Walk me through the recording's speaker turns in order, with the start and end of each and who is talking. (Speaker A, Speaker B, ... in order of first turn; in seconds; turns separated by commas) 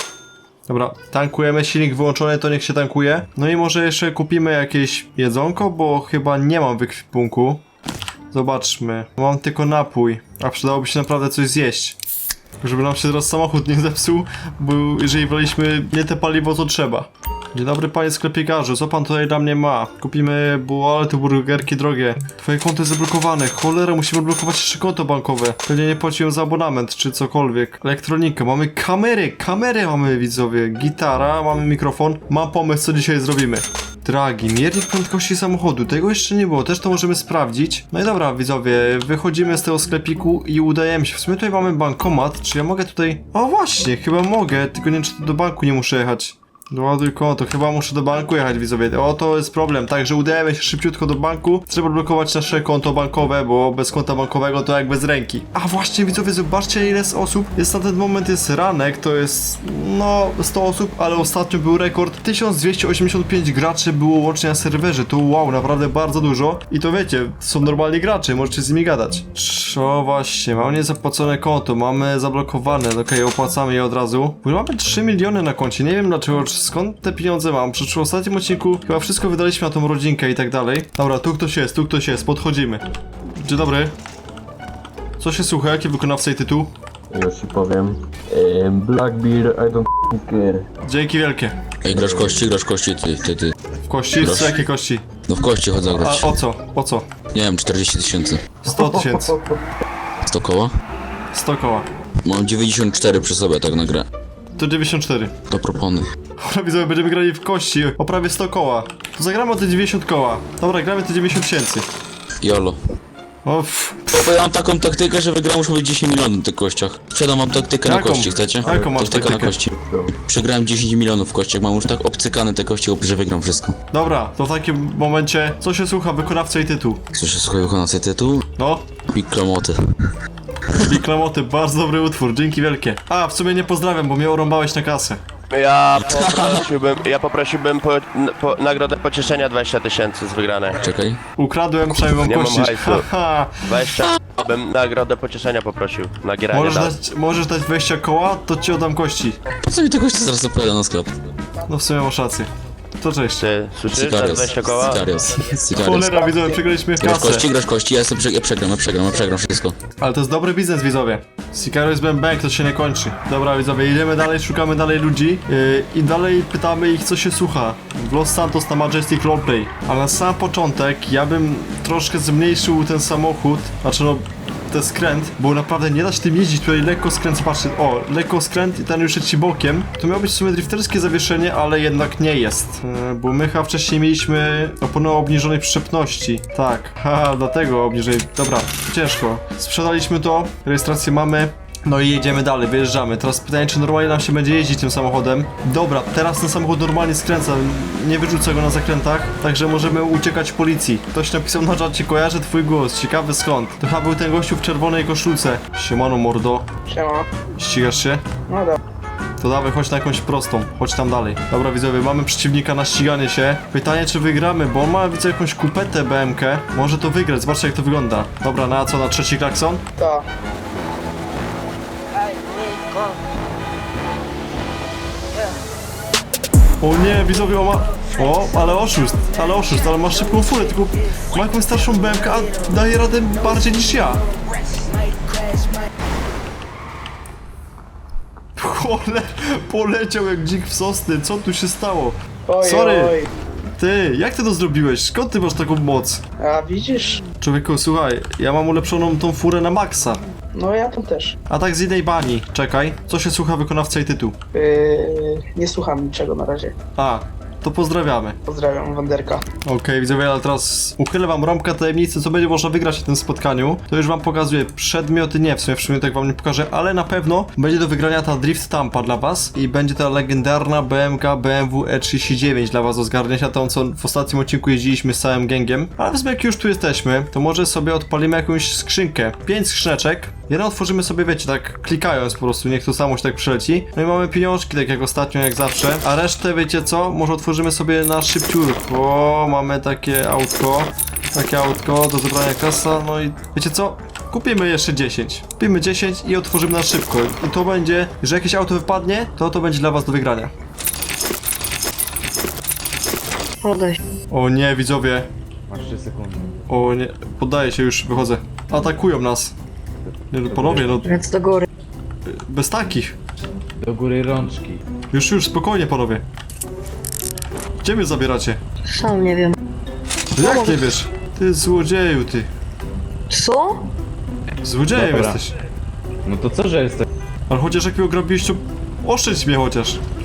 Speaker A: 0.7-7.6, Speaker A: 8.3-12.0, Speaker A: 12.6-82.8, Speaker A: 83.4-83.9, Speaker A: 85.2-86.7, Speaker B: 87.1-90.7, Speaker A: 90.8-91.6, Speaker C: 91.8-93.5, Speaker B: 91.8-92.4, Speaker A: 93.9-95.0, Speaker C: 94.2-94.6, Speaker C: 95.3-96.4, Speaker A: 96.0-97.0, Speaker C: 97.3-98.6, Speaker A: 98.6-99.4, Speaker B: 98.8-99.4, Speaker C: 100.2-100.7, Speaker A: 101.3-101.9, Speaker C: 102.2-104.0, Speaker A: 104.6-105.3, Speaker C: 105.5-106.0, Speaker A: 106.4-111.9, Speaker C: 112.4-112.8, Speaker A: 113.4-114.2, Speaker C: 114.1-123.8, Speaker A: 117.8-119.6, Speaker B: 118.6-119.1, Speaker B: 119.6-120.2, Speaker A: 123.9-127.0, Speaker C: 127.1-128.4, Speaker A: 128.6-128.8, Speaker C: 129.1-129.7, Speaker A: 130.8-135.2, Speaker D: 135.5-140.9, Speaker C: 136.0-136.6, Speaker C: 140.8-141.2, Speaker A: 141.4-143.6, Speaker D: 142.2-143.1, Speaker D: 143.6-146.9, Speaker A: 146.5-149.4, Speaker C: 149.7-151.1, Speaker A: 151.7-153.4, Speaker D: 153.4-155.1, Speaker C: 153.9-156.2, Speaker A: 155.8-157.4, Speaker C: 157.0-159.7, Speaker A: 160.0-206.7, Speaker E: 206.9-207.3, Speaker A: 207.6-208.2, Speaker E: 208.5-208.8, Speaker A: 209.4-219.8, Speaker E: 220.0-220.2, Speaker A: 226.8-234.2, Speaker A: 238.6-243.2, Speaker E: 242.5-243.3, Speaker A: 243.8-246.2, Speaker E: 246.4-247.2, Speaker A: 247.4-250.2, Speaker E: 250.5-251.4, Speaker A: 251.5-254.3, Speaker E: 254.5-256.8, Speaker A: 256.9-258.4, Speaker E: 258.4-259.4, Speaker A: 259.6-300.5, Speaker F: 303.6-304.0, Speaker A: 304.3-305.3, Speaker G: 305.7-306.7, Speaker A: 306.7-309.5, Speaker G: 310.0-311.1, Speaker A: 310.3-311.1, Speaker F: 311.0-311.7, Speaker A: 312.3-313.1, Speaker G: 313.8-314.8, Speaker A: 315.1-316.2, Speaker A: 317.8-318.6, Speaker F: 318.9-319.6, Speaker A: 320.4-322.5, Speaker F: 320.4-320.9, Speaker F: 323.3-323.9, Speaker A: 324.6-325.5, Speaker G: 324.9-325.4, Speaker G: 326.2-327.1, Speaker A: 327.5-330.0